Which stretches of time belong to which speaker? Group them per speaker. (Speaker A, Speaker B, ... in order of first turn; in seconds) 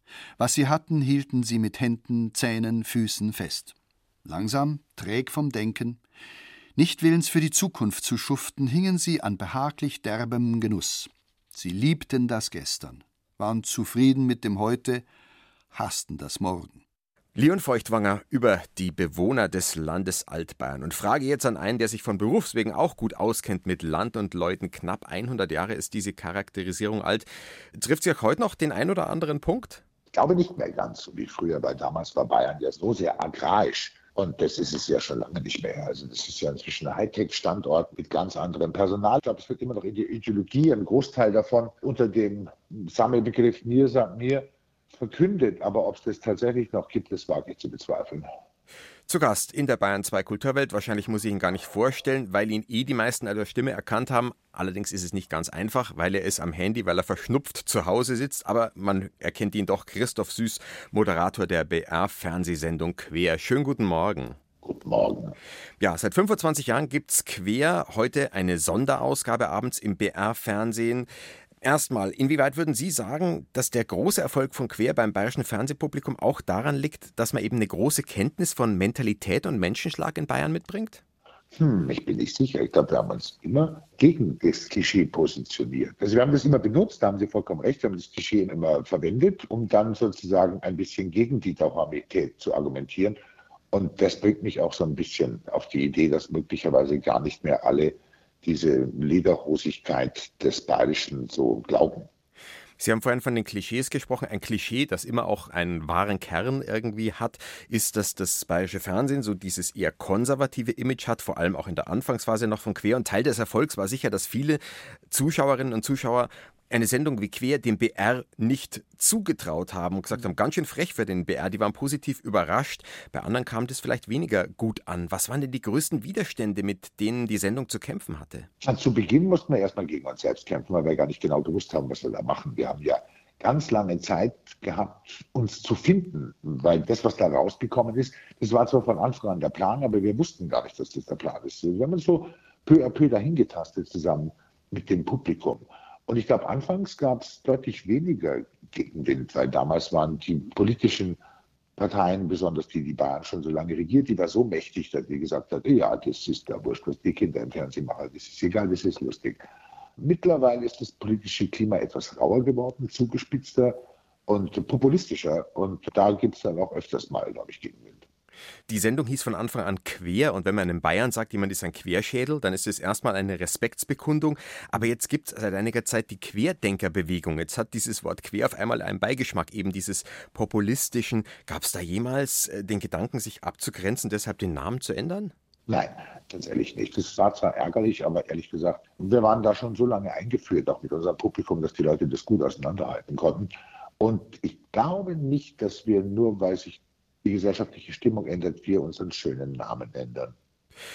Speaker A: 0.4-3.7, 4.2-6.0, 6.8-15.1, 15.7-16.8
Speaker B: 17.4-29.8, 49.1-64.4, 65.8-71.1, 71.6-81.0, 102.8-128.5, 168.7-185.3
Speaker C: 30.1-48.3, 64.6-65.3, 81.5-93.2, 93.7-102.1, 128.6-151.2, 151.8-159.4, 160.0-168.0, 185.7-200.3